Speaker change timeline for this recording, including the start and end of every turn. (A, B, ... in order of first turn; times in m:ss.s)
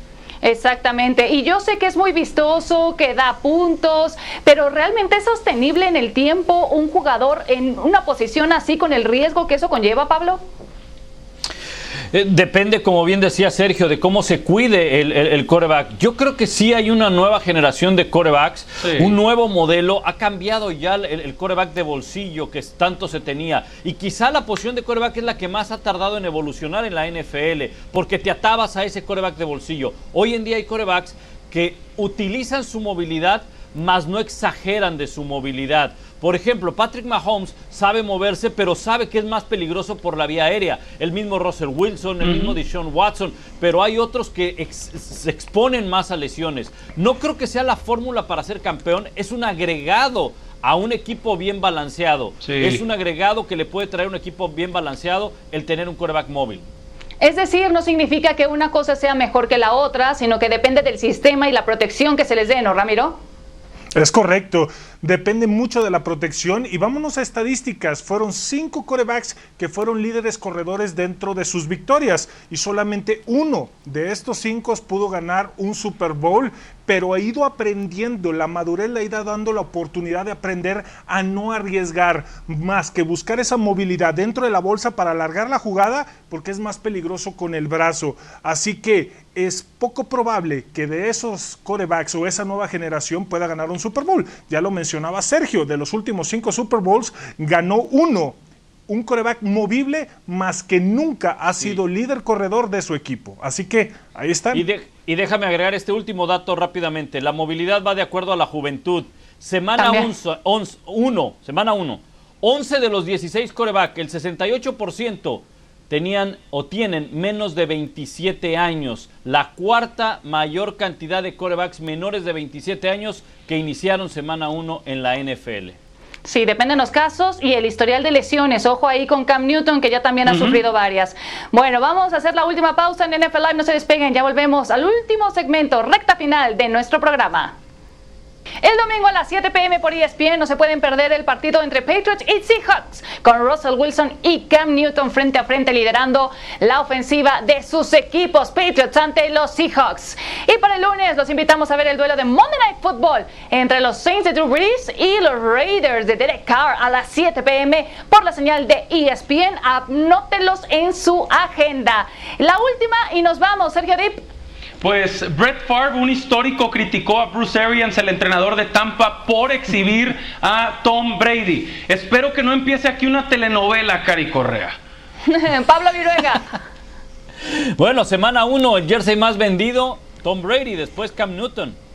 0:00.4-0:10.4 A
0:12.1-0:56.6 B
0:18.8-0:19.1 C
0:42.2-0:42.6 C
0:52.4-0:52.8 C
0:57.2-1:03.2 A
1:03.9-1:44.7 D
1:44.5-2:05.8 B
1:49.8-1:50.1 A
2:06.2-2:17.6 A
2:10.3-2:10.6 C
2:18.6-2:44.2 A
2:44.8-2:54.8 C
2:55.3-2:56.6 A
2:57.5-3:01.8 B